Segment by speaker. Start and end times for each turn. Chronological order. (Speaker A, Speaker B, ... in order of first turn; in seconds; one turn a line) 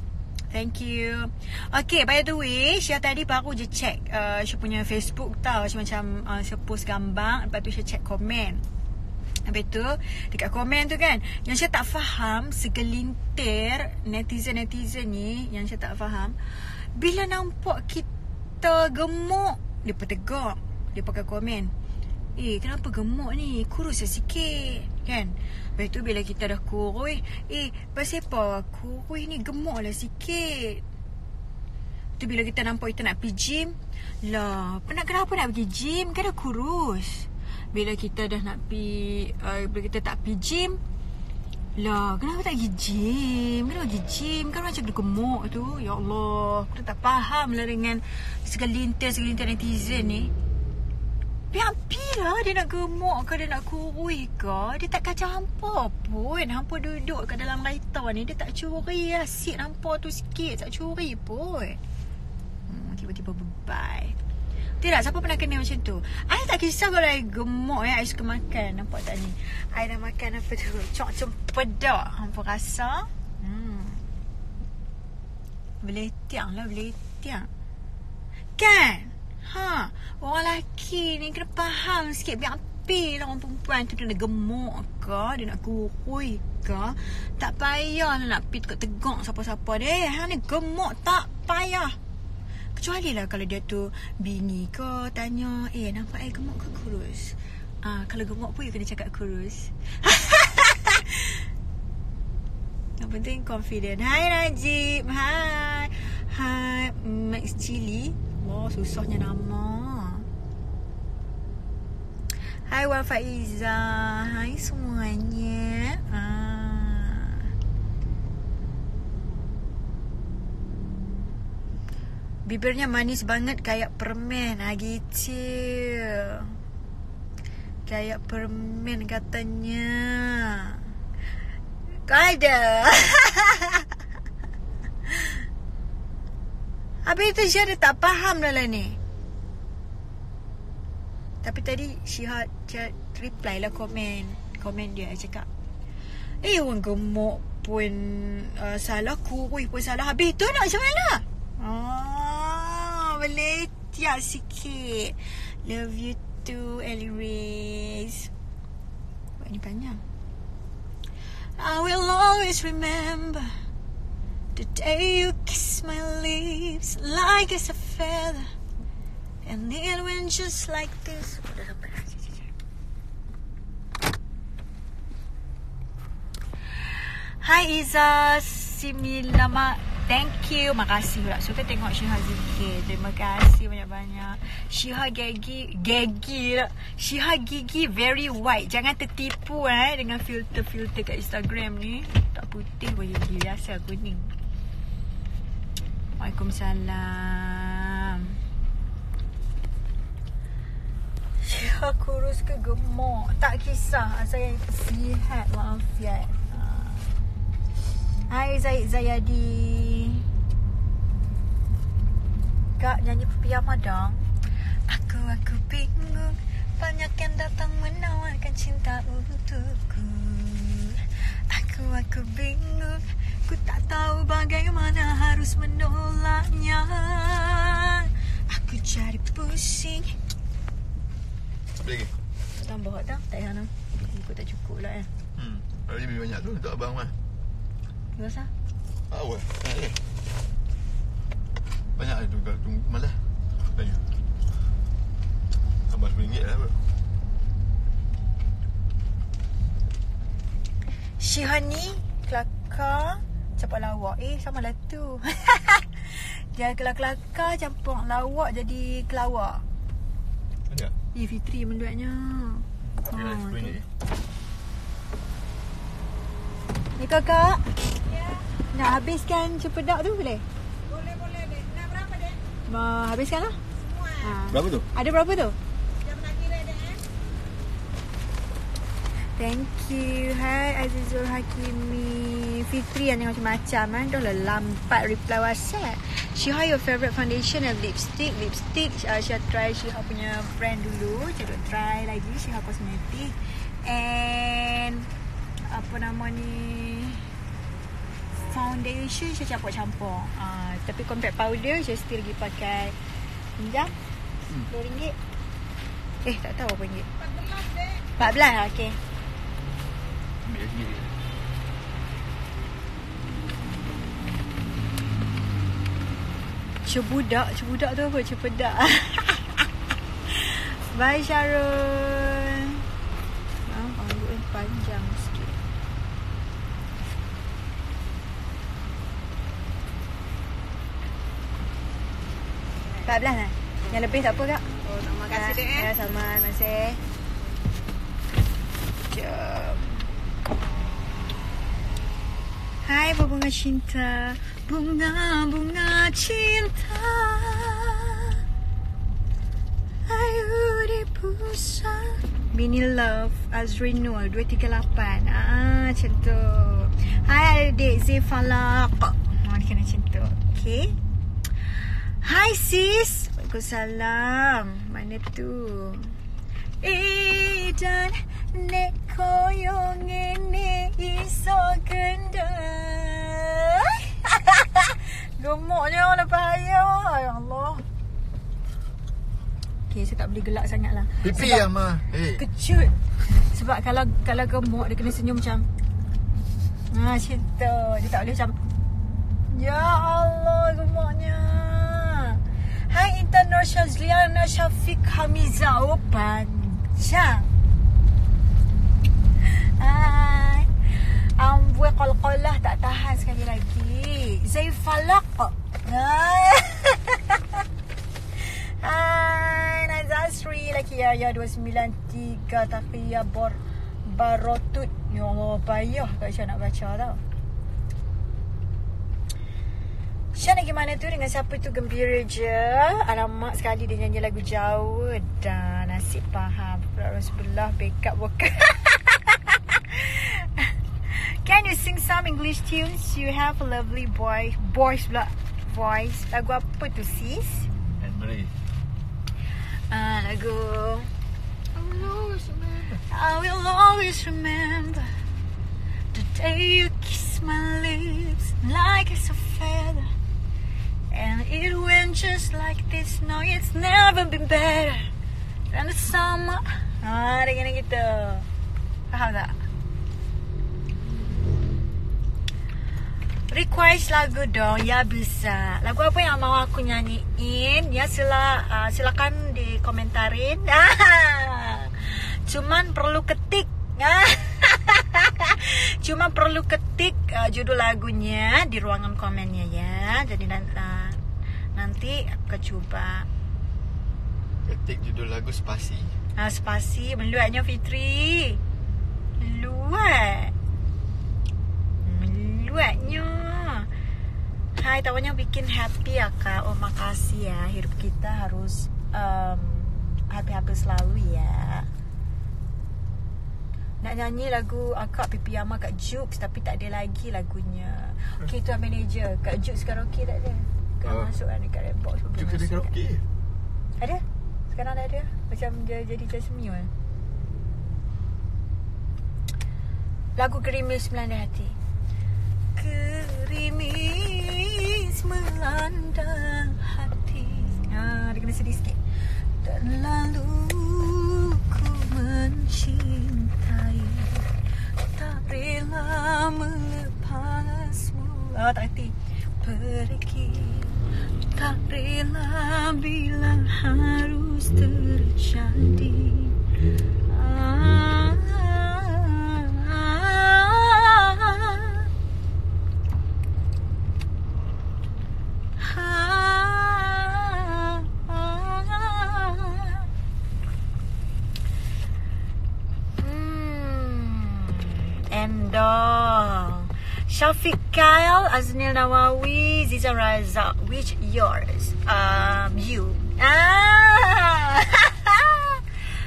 Speaker A: 0.5-8.6
Speaker A: 9.5-18.1
Speaker A: 18.6-21.7
Speaker A: 22.4-30.8
Speaker A: 32.2-40.8
Speaker A: 41.8-50.3
Speaker A: 51.5-61.8
Speaker A: 62.7-64.2
Speaker A: 64.8-74.0
Speaker A: 75.8-77.5
Speaker A: 78.6-92.0
Speaker A: 92.8-101.4
Speaker A: 103.0-110.3
Speaker A: 112.7-117.5
Speaker A: 122.5-126.5
Speaker A: 127.9-130.8
Speaker A: 132.1-133.9
Speaker A: 135.1-135.4
Speaker A: 137.1-139.0
Speaker A: 141.4-145.5
Speaker A: 146.4-158.3
Speaker A: 159.4-160.0
Speaker A: 161.6-163.5
Speaker A: 164.6-168.5
Speaker A: 169.4-172.5
Speaker A: 176.9-194.3
Speaker A: 196.2-198.4
Speaker A: 201.4-207.1
Speaker A: 208.3-210.3
Speaker A: 212.8-214.2
Speaker A: 214.9-230.2
Speaker B: 231.8-232.1
Speaker A: 232.6-235.1
Speaker B: 235.3-237.2
Speaker A: 238.2-238.5
Speaker B: 239.1-240.0
Speaker B: 242.0-244.0
Speaker B: 245.9-246.8
Speaker A: 251.2-259.6
Speaker B: 260.7-260.9
Speaker A: 261.1-263.8
Speaker B: 262.9-263.9
Speaker A: 267.0-267.7
Speaker C: 268.0-268.5
Speaker A: 268.7-270.4
Speaker C: 270.9-272.4
Speaker A: 272.7-273.6
Speaker C: 273.8-274.4
Speaker A: 274.2-275.6
Speaker B: 274.5-274.9
Speaker C: 276.0-277.0
Speaker A: 279.4-295.1
Speaker A: 295.7-297.3
Speaker A: 298.4-303.0
Speaker A: 303.6-303.9
Speaker A: 304.7-305.2
Speaker A: 306.2-307.1
Speaker C: 307.2-308.1
Speaker A: 308.2-309.0
Speaker B: 310.4-311.2
Speaker A: 316.9-319.7
Speaker A: 320.3-322.8
Speaker A: 323.6-325.6
Speaker A: 333.1-334.7
Speaker C: 334.8-335.9
Speaker A: 335.3-337.0
Speaker A: 339.1-340.1
Speaker A: 342.9-348.4
Speaker A: 350.1-360.9
Speaker A: 362.2-366.1
Speaker A: 366.8-377.9
Speaker A: 379.9-381.7
Speaker B: 381.2-382.4
Speaker A: 382.4-385.7
Speaker A: 386.9-388.6
Speaker A: 389.5-397.5
Speaker A: 399.4-407.6
Speaker A: 408.4-417.2
Speaker A: 420.4-437.7
Speaker B: 438.0-438.5
Speaker A: 439.9-441.1
Speaker B: 441.8-443.0
Speaker A: 443.1-445.1
Speaker A: 446.1-450.1
Speaker A: 451.1-455.1
Speaker A: 455.7-458.5
Speaker A: 459.1-459.6
Speaker A: 463.5-481.2
Speaker A: 481.8-483.3
Speaker B: 484.6-486.2
Speaker A: 486.4-488.6
Speaker A: 489.4-490.5
Speaker A: 492.0-493.9
Speaker A: 494.8-501.9
Speaker A: 504.0-512.9
Speaker B: 511.0-511.3
Speaker B: 512.3-513.2
Speaker A: 514.0-516.9
Speaker A: 520.4-521.8
Speaker A: 522.8-529.0
Speaker A: 529.6-534.5
Speaker A: 535.1-541.0
Speaker A: 541.5-546.6
Speaker A: 547.3-552.1
Speaker A: 555.8-560.0
Speaker A: 563.2-575.8